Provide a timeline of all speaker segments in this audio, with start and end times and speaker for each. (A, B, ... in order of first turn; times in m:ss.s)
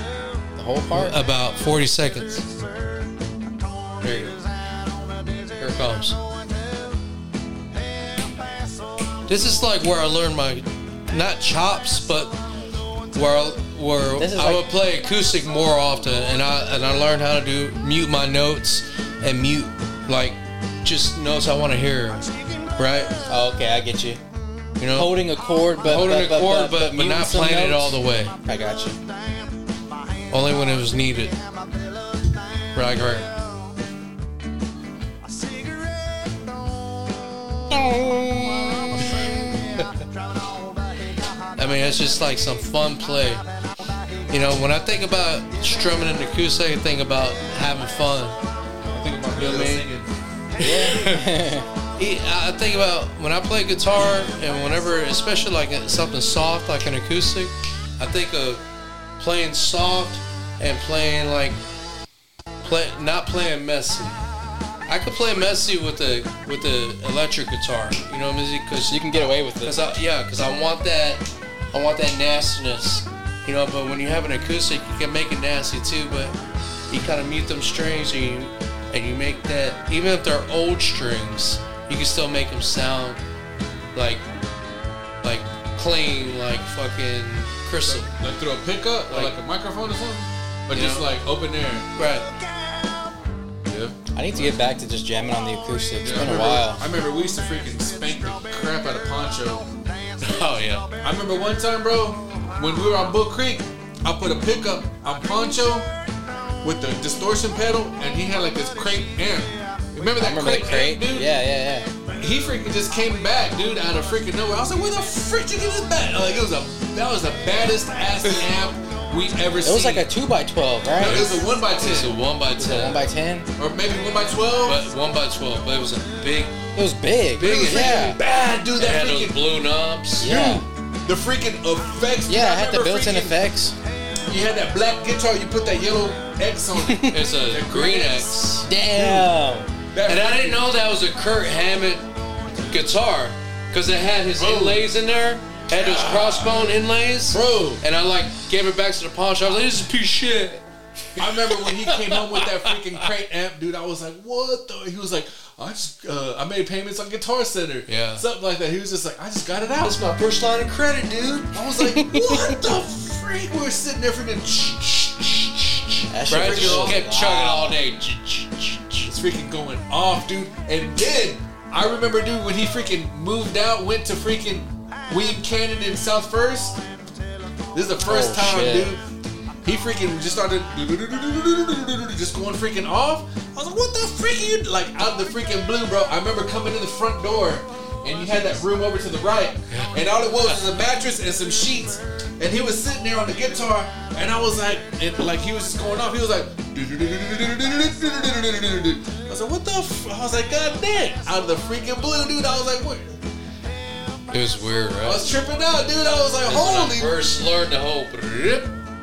0:00.5-0:01.2 A
0:00.9-0:02.4 B
0:04.0-0:04.4 B
0:05.6-0:06.2 B
0:09.3-0:12.4 B
0:13.1-0:23.1 B
0:14.2-0:14.7 A
0:23.3-0:24.2 A
0:24.8-0:25.2 B
0:24.9-0:29.0 A
0:25.8-0:28.3 B
0:30.3-0:31.4 B
0:32.7-0:33.3 B
0:37.7-0:39.2 A
0:41.6-0:43.4 B
0:44.3-0:48.4 B
0:48.9-0:50.1 C
0:49.4-0:49.9 B
0:50.6-0:51.7 A
0:50.6-0:51.2 B
0:52.0-0:58.6 B
0:59.2-1:01.6 B
1:02.6-1:04.2 B
1:04.9-1:16.3 B
1:08.9-1:09.8 A
1:16.9-1:23.2 B
1:23.9-1:24.2 B
1:25.2-1:28.1 B
1:27.8-1:31.9 C
1:29.1-1:29.3 B
1:30.7-1:31.1 B
1:32.0-1:32.3 B
1:33.6-1:34.6 C
1:34.1-1:36.8 A
1:36.0-1:39.7 C
1:40.2-1:40.9 B
1:41.0-1:45.9 C
1:46.6-1:51.3 C
1:50.1-1:51.9 A
1:52.2-2:00.1 C
1:59.6-2:01.4 A
2:01.0-2:02.2 C
2:01.6-2:03.0 B
2:02.6-2:03.5 A
2:03.6-2:04.8 C
2:04.6-2:06.6 B
2:06.7-2:08.2 A
2:07.4-2:08.0 B
2:07.4-2:09.4 C
2:08.8-2:10.4 B
2:10.2-2:10.6 A
2:10.2-2:13.3 C
2:12.3-2:13.8 A
2:14.3-2:18.4 C
2:16.8-2:17.2 A
2:17.1-2:18.7 B
2:18.7-2:19.7 A
2:18.9-2:19.2 C
2:19.9-2:20.6 C
2:20.1-2:22.0 B
2:22.7-2:30.6 B
2:24.4-2:24.8 C
2:25.7-2:26.7 C
2:27.3-2:27.8 C
2:31.1-2:33.1 B
2:31.2-2:40.0 C
2:37.9-2:38.2 B
2:39.8-2:41.5 B
2:41.5-2:47.0 C
2:41.9-2:42.6 A
2:46.1-2:47.8 A
2:46.3-2:49.1 B
2:49.0-2:56.8 C
2:57.7-2:59.0 C
2:58.0-2:59.0 A
2:59.6-3:23.2 C
3:09.7-3:10.6 B
3:24.3-3:25.3 B
3:25.0-3:27.2 C
3:26.4-3:28.7 B